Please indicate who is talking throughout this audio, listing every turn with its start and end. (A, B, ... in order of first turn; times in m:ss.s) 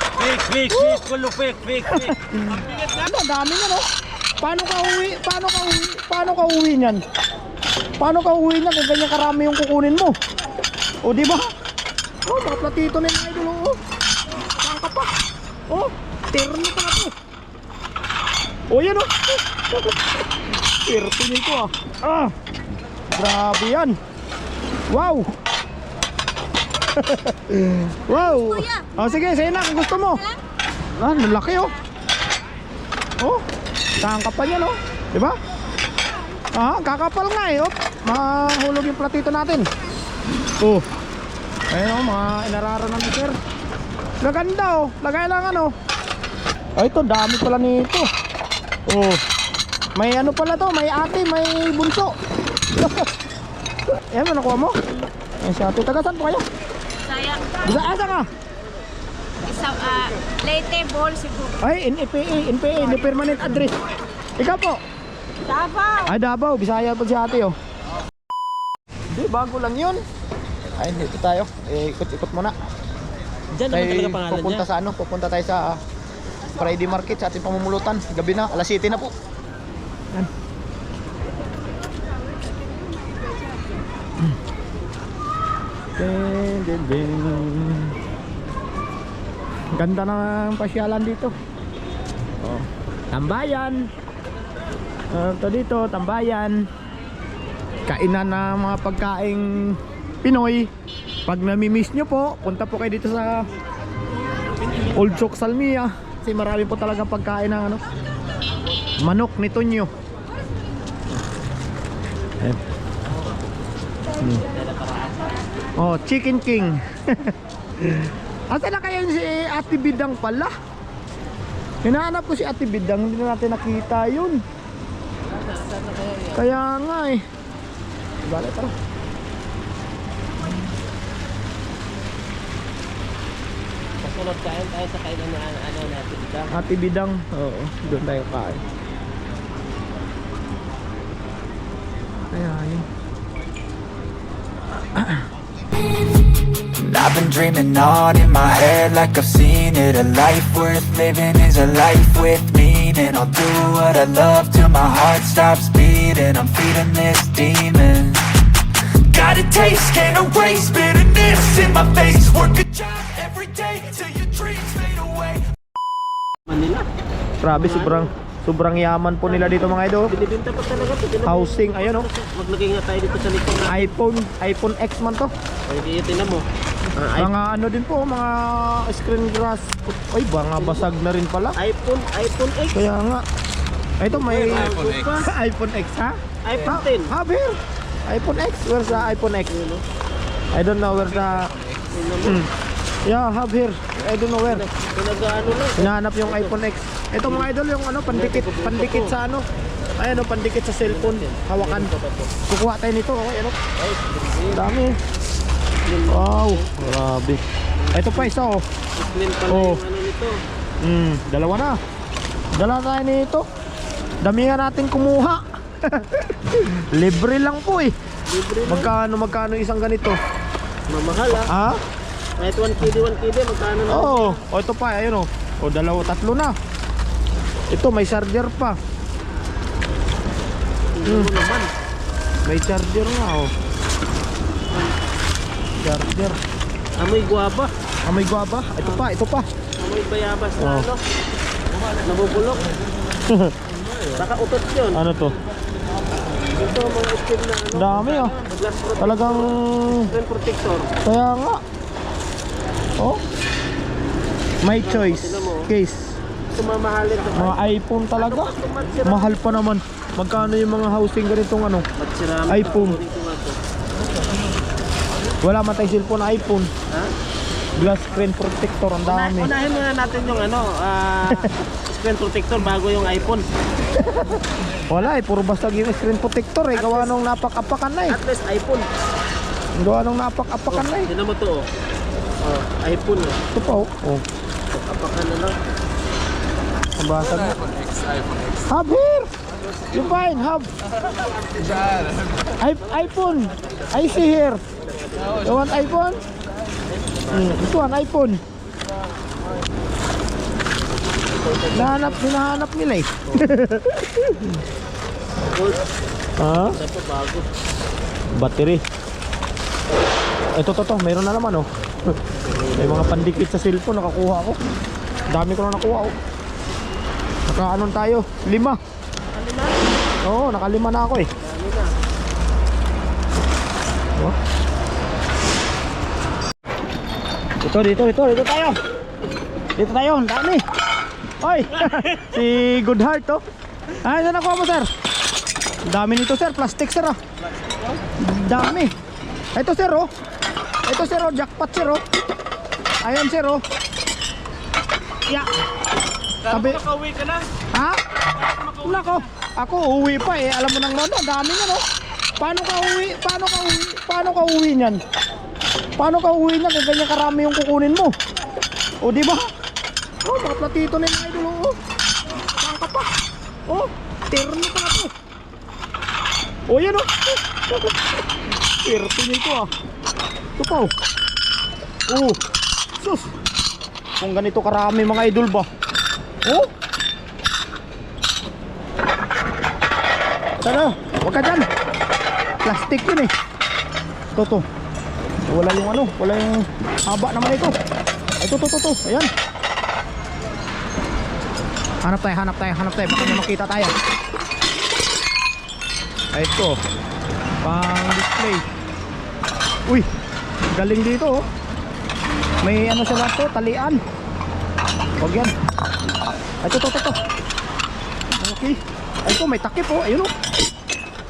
0:00.2-0:02.1 A
0:00.7-0:01.0 B
0:01.9-0:03.8 B
0:04.4-0:07.0 B
0:08.0-0:10.2 B
0:11.0-0:11.5 B
0:12.3-0:13.8 B
0:14.6-0:15.1 B
0:15.7-0:17.1 B
0:18.7-0:19.9 B
0:20.8-0:22.4 B
0:23.1-0:24.0 B
0:24.9-0:25.3 B
0:26.9-0:30.4 B
0:31.0-0:31.8 B
0:34.0-0:35.4 B
0:36.5-0:39.7 B
0:41.7-0:43.4 B
0:44.2-0:45.7 B
0:46.8-0:48.1 B
0:48.9-0:49.2 B
0:50.0-0:52.1 B
0:54.1-0:54.8 B
0:55.4-0:56.4 B
0:57.6-0:58.3 B
0:59.5-1:01.5 C
1:01.6-1:03.7 B
1:04.4-1:04.8 B
1:05.5-1:06.0 A
1:06.0-1:07.6 B
1:09.1-1:10.0 B
1:10.8-1:12.5 B
1:13.6-1:14.7 A
1:13.7-1:15.8 B
1:16.6-1:19.1 B
1:26.0-1:28.0 B
1:29.8-1:31.3 B
1:32.4-1:33.9 B
1:35.1-1:36.7 B
1:37.9-1:40.7 B
1:41.3-1:43.5 B
1:44.9-1:47.8 B
1:49.0-1:49.9 B
1:54.6-1:55.3 A
1:55.8-2:00.5 B
2:01.8-2:04.4 B
2:05.4-2:06.4 A
2:06.3-2:07.2 B
2:08.2-2:08.7 B
2:14.0-2:16.5 A
2:16.5-2:18.6 B
2:22.3-2:22.9 B
2:25.0-2:25.2 B
2:26.8-2:38.3 D
2:39.1-2:45.4 D
2:46.5-2:46.9 A
2:47.4-2:50.1 B
2:47.5-2:48.1 A
2:49.3-2:53.9 A
2:51.2-2:52.1 B
2:53.6-2:55.3 B
2:55.7-2:56.5 A
2:57.0-2:57.3 A
2:57.2-3:01.6 B
3:00.6-3:00.9 A
3:01.6-3:02.9 A
3:02.7-3:03.2 B
3:04.0-3:07.6 B
3:04.1-3:05.3 A
3:06.4-3:07.1 A
3:08.1-3:09.6 B
3:08.9-3:09.8 A
3:10.5-3:11.5 B
3:11.9-3:12.4 A
3:12.2-3:12.5 B
3:13.1-3:14.6 B
3:14.5-3:16.5 A
3:15.8-3:19.4 B
3:18.1-3:19.2 A
3:20.0-3:21.9 B
3:20.9-3:22.3 A
3:22.4-3:23.6 B
3:23.9-3:24.5 A
3:24.5-3:25.0 B
3:25.8-3:26.7 A
3:26.1-3:27.4 B
3:27.8-3:28.3 A
3:27.9-3:28.6 B
3:29.0-3:30.4 A
3:29.5-3:29.8 B
3:30.8-3:31.8 B
3:32.5-3:33.5 B
3:34.2-3:37.9 B
3:38.3-3:38.9 A
3:38.6-3:40.2 B
3:40.9-3:41.5 A
3:41.5-3:41.8 B
3:42.4-3:44.4 A
3:43.9-3:46.5 B
3:47.7-3:48.8 B
3:51.0-3:51.7 A
3:51.0-3:51.3 B
3:52.5-3:53.5 B
3:55.8-3:56.4 B
3:57.0-3:57.7 A
3:58.0-3:59.5 B
3:59.8-4:01.0 A
4:00.6-4:00.9 B
4:02.0-4:02.7 A
4:03.3-4:03.6 B
4:04.1-4:05.0 A
4:04.9-4:05.4 B
4:06.5-4:10.9 A
4:07.7-4:08.4 B
4:09.0-4:10.1 B
4:11.0-4:11.6 B
4:14.6-4:16.2 B
4:14.8-4:15.7 A
4:16.5-4:17.6 A
4:17.3-4:21.8 B
4:18.2-4:19.6 A
4:22.0-4:23.6 A
4:22.5-4:23.0 B
4:25.4-4:26.7 B
4:27.8-4:29.5 B
4:29.0-4:33.4 A
4:31.3-4:31.5 B
4:34.0-4:38.2 B
4:36.8-4:37.1 A
4:38.1-4:38.9 A
4:39.8-4:41.1 B
4:40.7-4:41.7 A
4:42.4-4:43.5 A
4:43.5-4:44.3 B
4:44.7-4:45.6 A
4:47.0-4:47.6 B
4:48.7-4:49.3 B
4:49.9-4:50.7 B
4:51.5-4:52.1 A
4:52.6-4:54.6 B
4:54.8-4:55.5 A
4:55.4-4:56.2 B
4:56.9-4:57.5 A
4:57.3-4:58.4 B
5:01.6-5:02.1 A
5:01.7-5:04.6 B
5:05.5-5:05.8 A
5:06.4-5:06.8 B
5:06.5-5:07.5 A
5:08.4-5:08.8 B
5:10.6-5:11.7 B
5:12.5-5:13.3 A
5:12.8-5:14.6 B
5:15.3-5:16.1 B
5:17.5-5:18.8 B
5:19.3-5:19.9 A
5:20.2-5:21.3 B
5:21.4-5:22.0 A
5:27.6-5:28.8 B
5:29.8-5:30.6 B
5:31.4-5:33.4 B
5:34.0-5:34.9 B
5:35.9-5:37.2 B
5:38.2-5:38.9 B
5:39.6-5:40.1 B
5:40.9-5:42.0 B
5:43.0-5:43.6 B
5:46.5-5:47.5 A
5:46.5-5:46.8 B
5:47.7-5:48.0 B
5:48.8-5:51.8 B
5:52.4-5:55.0 B
5:56.0-5:58.1 B
5:59.0-5:59.5 B
6:00.2-6:01.8 B
6:02.6-6:03.1 B
6:03.7-6:05.1 B
6:06.7-6:07.9 B
6:08.8-6:09.7 B
6:10.6-6:10.9 B
6:12.1-6:12.4 B
6:13.0-6:13.3 B
6:14.2-6:15.7 B
6:20.6-6:21.7 B
6:22.6-6:23.3 B
6:24.4-6:24.6 B
6:25.5-6:27.8 B
6:28.4-6:29.3 B
6:32.0-6:33.9 B
6:36.3-6:36.8 B
6:37.6-6:38.6 B
6:40.7-6:41.4 B
6:42.6-6:44.0 B
6:45.2-6:45.5 B
6:46.6-6:47.2 B
6:48.4-6:50.3 B